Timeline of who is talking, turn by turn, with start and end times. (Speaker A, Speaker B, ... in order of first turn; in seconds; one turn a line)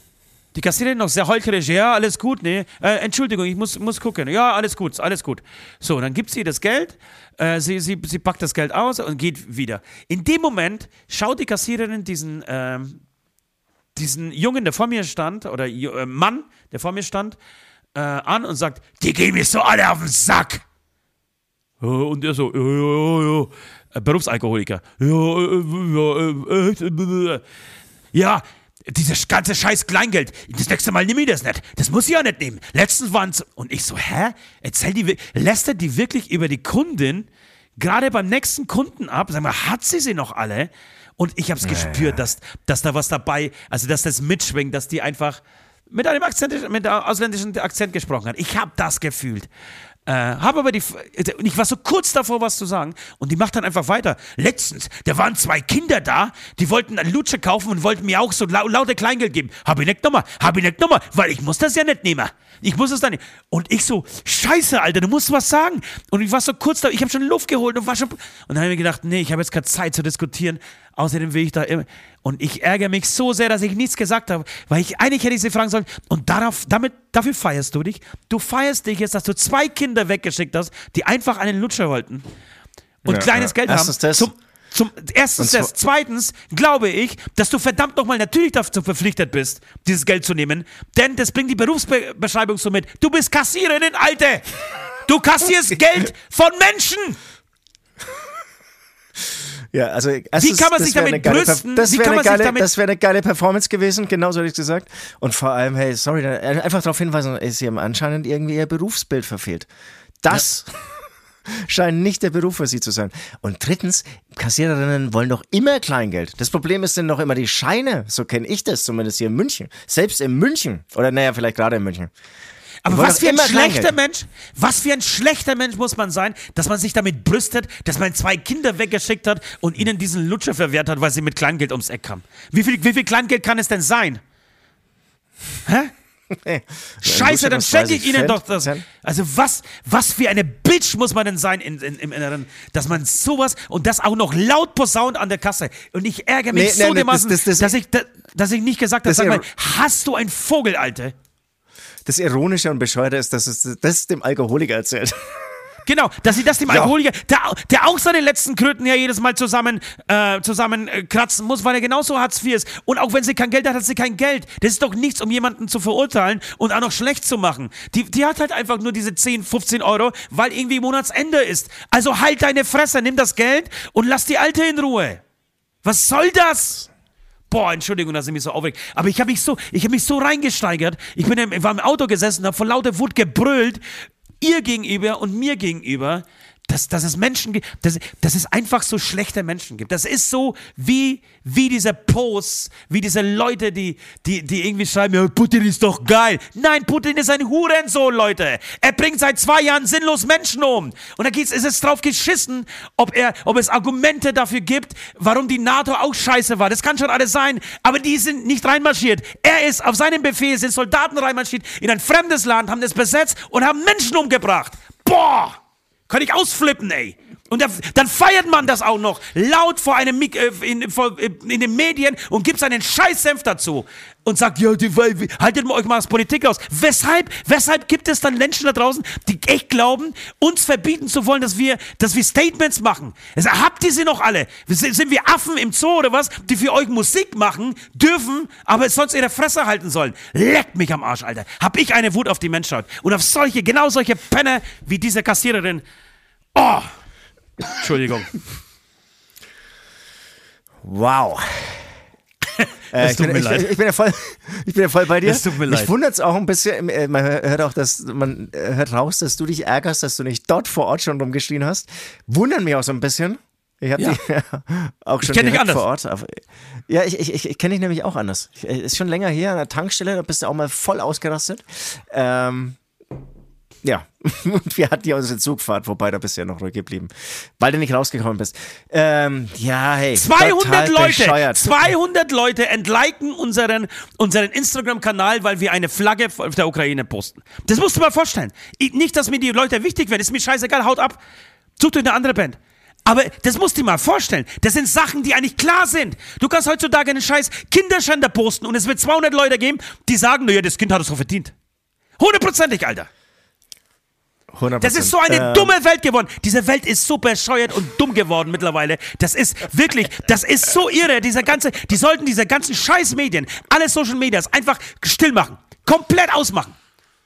Speaker A: 0.5-13.0
Speaker A: 13.9-17.4
Speaker A: 17.9-20.6
Speaker A: 21.8-27.4
Speaker A: 28.1-37.3
Speaker A: 37.8-49.5
Speaker B: 41.6-42.2
Speaker A: 50.1-82.3
Speaker A: 83.0-97.2
Speaker B: 83.1-84.3
Speaker B: 85.4-85.7
Speaker B: 99.7-109.7
Speaker A: 100.4-102.7
Speaker B: 110.2-122.1
Speaker A: 122.8-134.2
Speaker B: 122.9-123.9
Speaker A: 135.7-135.9
Speaker B: 136.3-138.8
Speaker A: 137.0-151.1
Speaker B: 146.5-147.8
Speaker B: 149.1-149.4
Speaker B: 152.1-155.4
Speaker A: 155.9-175.2
Speaker B: 156.7-156.9
Speaker A: 175.8-176.9
Speaker A: 177.5-183.8
Speaker A: 184.4-245.8
Speaker A: 246.6-246.9
Speaker A: 247.6-248.5
Speaker B: 250.8-251.9
Speaker A: 252.6-253.7
Speaker B: 252.9-272.8
Speaker A: 255.2-255.9
Speaker A: 265.2-265.9
Speaker B: 273.8-281.9
Speaker A: 280.1-291.2
Speaker A: 291.8-301.5
Speaker A: 302.2-303.1
Speaker B: 304.5-305.7
Speaker A: 304.8-316.8